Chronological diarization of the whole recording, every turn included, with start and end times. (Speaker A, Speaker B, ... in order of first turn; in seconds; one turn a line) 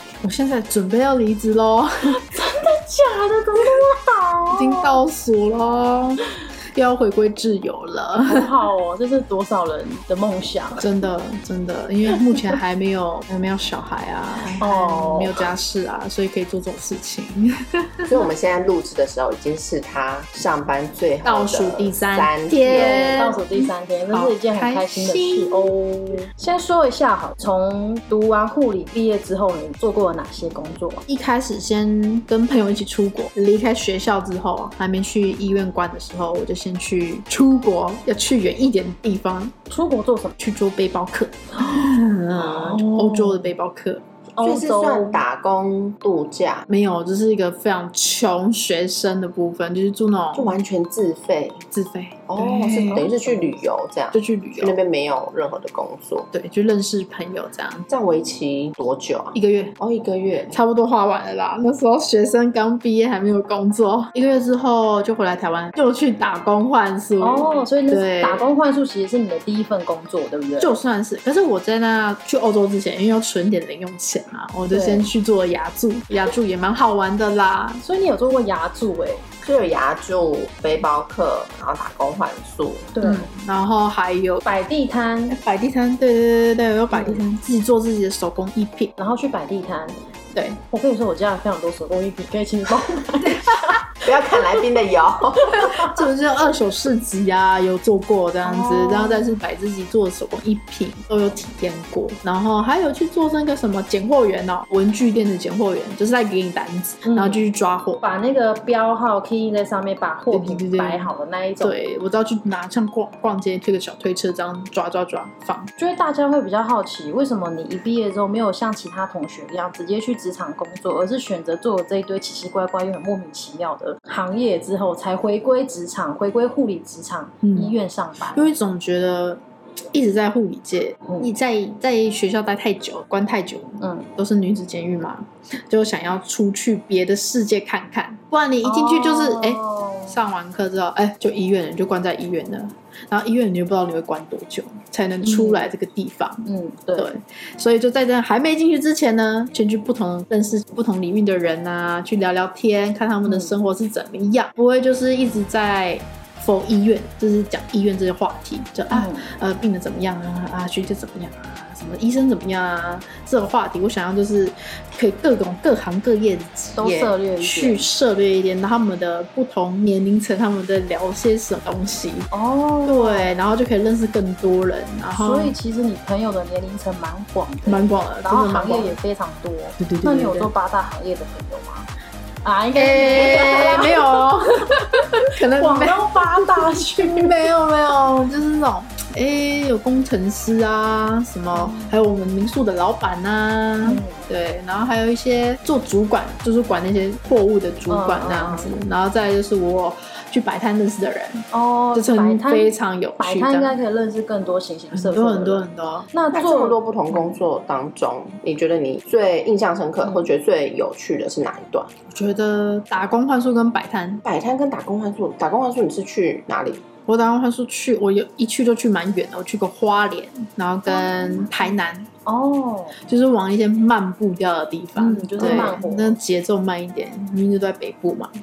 Speaker A: 0.2-2.2
Speaker B: 2.2-5.0
Speaker A: 4.5-8.5
Speaker B: 8.2-10.9
Speaker A: 10.8-18.1
Speaker B: 14.6-15.4
Speaker C: 18.1-23.3
Speaker A: 21.2-25.7
Speaker B: 22.7-31.0
Speaker A: 31.1-39.5
Speaker B: 39.7-40.4
Speaker A: 40.4-44.0
Speaker B: 42.4-43.5
Speaker B: 44.4-45.2
Speaker C: 44.4-46.7
Speaker A: 46.7-50.5
Speaker C: 50.3-51.6
Speaker A: 51.7-53.4
Speaker C: 52.3-56.3
Speaker A: 54.1-54.8
Speaker A: 56.3-57.9
Speaker C: 57.9-60.6
Speaker A: 59.3-59.7
Speaker A: 60.5-68.5
Speaker B: 67.2-70.8
Speaker A: 70.6-77.8
Speaker B: 74.7-75.0
Speaker B: 77.8-79.2
Speaker C: 79.4-82.9
Speaker B: 82.9-83.3
Speaker A: 83.0-84.4
Speaker B: 84.4-85.4
Speaker A: 85.3-88.9
Speaker B: 86.9-87.2
Speaker B: 89.0-90.0
Speaker B: 90.7-93.8
Speaker C: 94.0-95.8
Speaker A: 95.7-108.0
Speaker B: 98.4-99.4
Speaker B: 107.0-107.4
Speaker B: 108.0-111.8
Speaker A: 110.3-115.7
Speaker B: 115.8-128.5
Speaker A: 127.4-127.7
Speaker A: 128.3-129.4
Speaker A: 129.9-172.3
Speaker B: 133.8-134.1
Speaker B: 138.6-140.2
Speaker B: 145.2-145.7
Speaker B: 146.4-147.1
Speaker B: 153.2-153.5
Speaker B: 158.9-159.2
Speaker B: 166.8-167.9
Speaker B: 172.3-173.3
Speaker A: 172.8-175.5
Speaker B: 175.1-181.9
Speaker A: 177.7-178.9
Speaker A: 179.8-180.5
Speaker B: 182.4-187.3
Speaker A: 182.8-203.8
Speaker B: 191.5-192.0
Speaker B: 193.8-194.2
Speaker B: 197.9-198.7
Speaker B: 201.5-206.8
Speaker A: 204.9-206.1
Speaker C: 206.3-211.9
Speaker A: 212.1-214.2
Speaker C: 214.2-216.8
Speaker A: 217.1-222.1
Speaker B: 220.8-222.9
Speaker A: 223.0-228.3
Speaker B: 225.0-226.2
Speaker C: 225.4-225.7